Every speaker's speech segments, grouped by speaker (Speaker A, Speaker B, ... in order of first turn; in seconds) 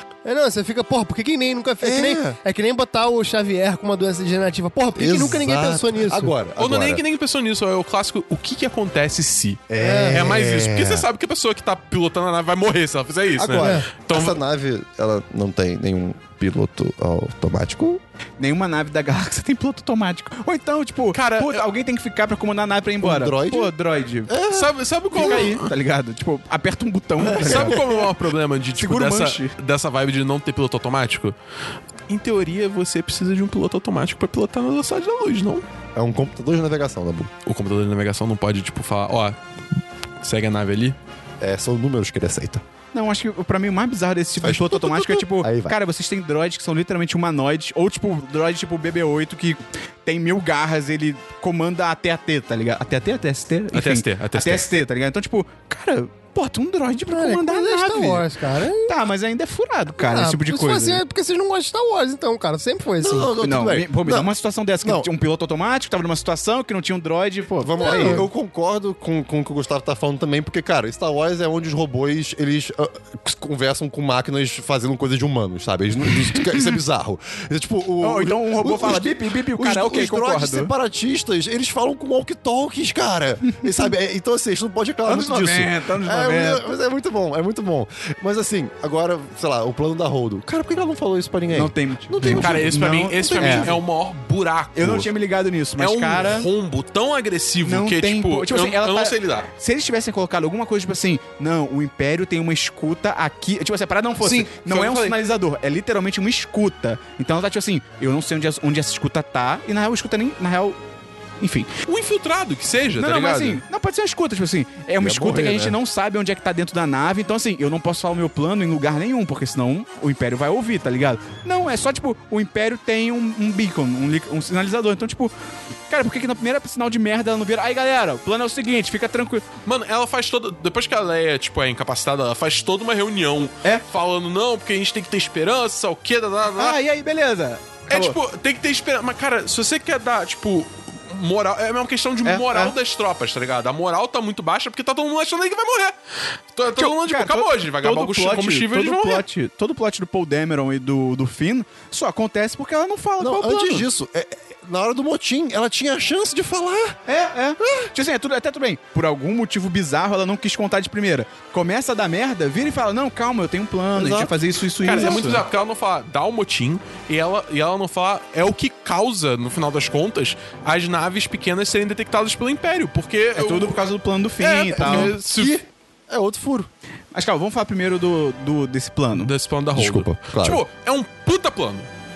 Speaker A: 0.2-6.3, 9.8-10.3, 13.6-13.9, 57.1-59.0, 60.0-63.3, 67.8-68.3
Speaker B: 1.8-2.4, 5.0-7.0, 9.7-11.1, 13.4-18.0, 23.0-23.7, 24.3-25.5, 27.2-28.0, 36.0-37.3, 41.4-42.6, 44.4-45.8, 63.0-65.1, 67.6-93.8, 115.0-115.8, 153.2-157.0, 157.6-157.9, 163.9-164.3, 164.8-165.3, 174.7-176.7, 179.7-180.6
Speaker C: 6.6-14.4, 21.1-21.6, 24.5-25.7, 27.4-31.4, 32.1-35.6, 37.5-39.4, 40.2-41.0, 53.7-54.7, 92.3-95.1, 95.8-99.5, 104.2-105.2, 111.9-113.6, 129.7-136.8, 137.9-145.9, 146.5-149.2, 164.8-173.8, 174.4-175.5, 179.2-181.9
Speaker D: 18.4-24.3, 25.1-27.8, 28.7-29.5, 42.9-58.3, 58.8-61.0, 63.4-68.3, 78.0-80.7, 85.1-86.6, 91.5-93.8, 94.7-96.5, 97.6-110.8, 111.4-111.7, 113.0-125.3, 125.9-129.4, 136.6-138.2, 142.2-142.7, 146.7-153.9, 157.1-165.4, 173.3-175.1, 177.1-179.3